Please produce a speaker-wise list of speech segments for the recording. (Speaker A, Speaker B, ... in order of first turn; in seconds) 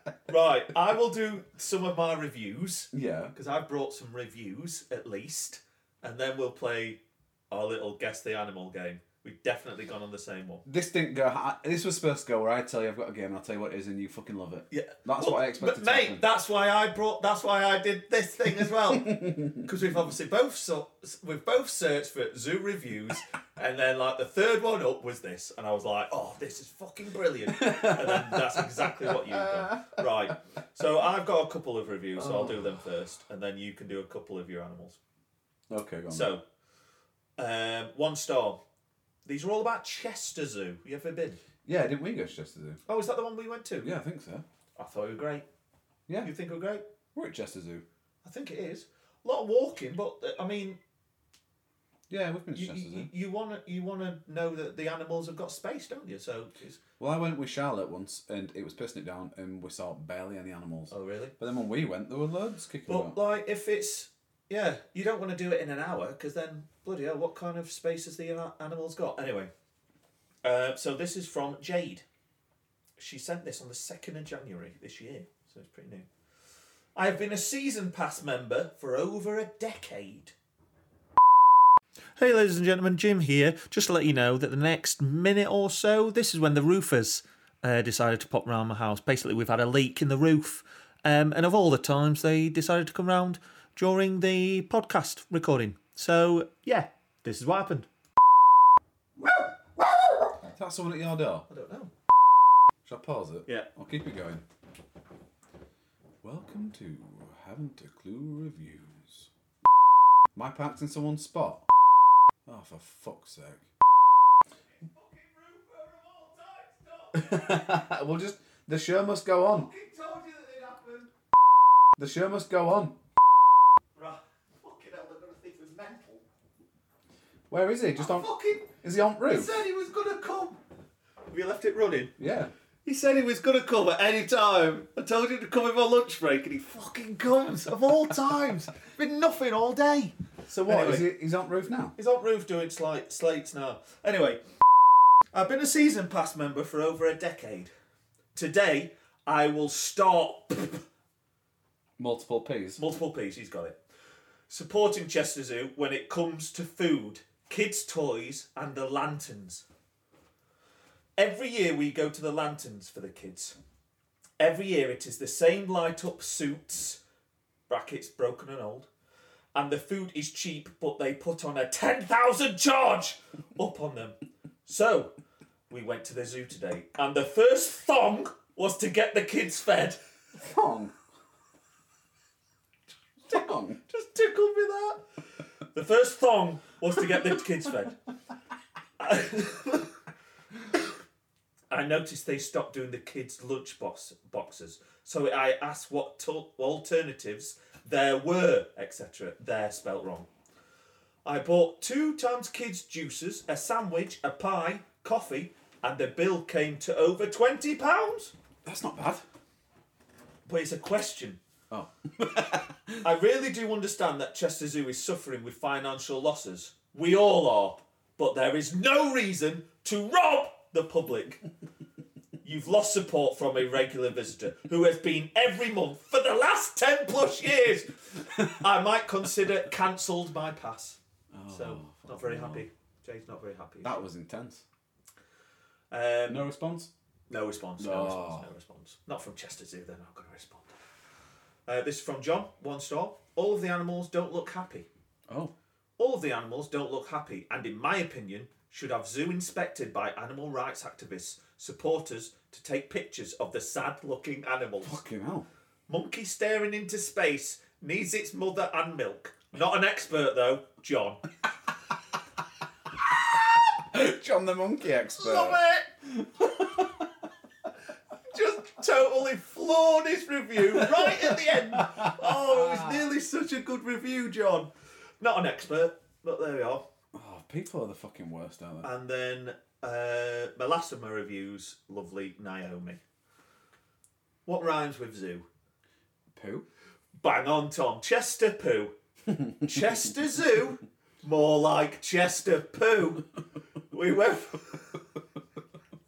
Speaker A: 0.3-10.6, 14.7-35.0, 36.1-36.4, 37.4-38.6, 39.2-41.4, 42.9-43.9, 44.8-45.5, 46.2-46.8, 48.2-50.8, 52.5-56.8, 60.9-61.3, 62.9-69.5, 70.4-72.0, 73.0-76.1, 77.0-80.3, 82.2-97.9, 101.5-101.9, 114.8-117.8, 119.5-121.1, 124.0-126.2, 128.0-128.7, 129.2-130.6, 131.3-132.1, 132.8-140.1, 140.6-141.1, 141.9-144.4, 145.3-147.7, 148.3-150.8, 152.8-153.8, 154.5-159.6, 161.2-163.6, 164.4-167.0, 167.7-168.9, 169.5-175.1, 175.7-180.0, 183.3-185.0, 185.7-188.0, 189.0-189.9, 191.7-200.3, 201.2-208.3, 210.4-211.4, 213.0-221.4, 222.4-234.1, 235.9-236.4, 237.3-240.8, 241.7-244.9, 246.0-255.0, 255.9-261.2, 265.1-265.9, 268.3-274.7, 275.2-276.8, 278.8-283.0, 284.4-285.4, 287.2-288.9, 289.5-293.2, 293.9-295.0
Speaker B: 2.9-3.3, 10.6-16.2, 18.9-19.6, 27.5-30.0, 32.2-32.7, 35.7-36.3, 41.6-42.8, 43.8-44.4, 47.1-47.8, 52.1-53.1, 57.0-63.2, 100.5-101.5, 102.8-104.4, 106.2-109.3, 110.3-111.6, 112.5-113.7, 117.1-119.7, 122.0-123.0, 127.5-129.5, 132.2-132.5, 140.5-141.9, 152.0-152.8, 180.3-180.9, 183.2-183.8, 208.6-209.2, 211.7-213.0, 231.3-232.6, 233.8-234.6, 236.3-236.9, 237.8-238.5, 254.8-255.5, 263.0-267.1, 270.8-273.0, 277.1-278.9, 286.3-286.6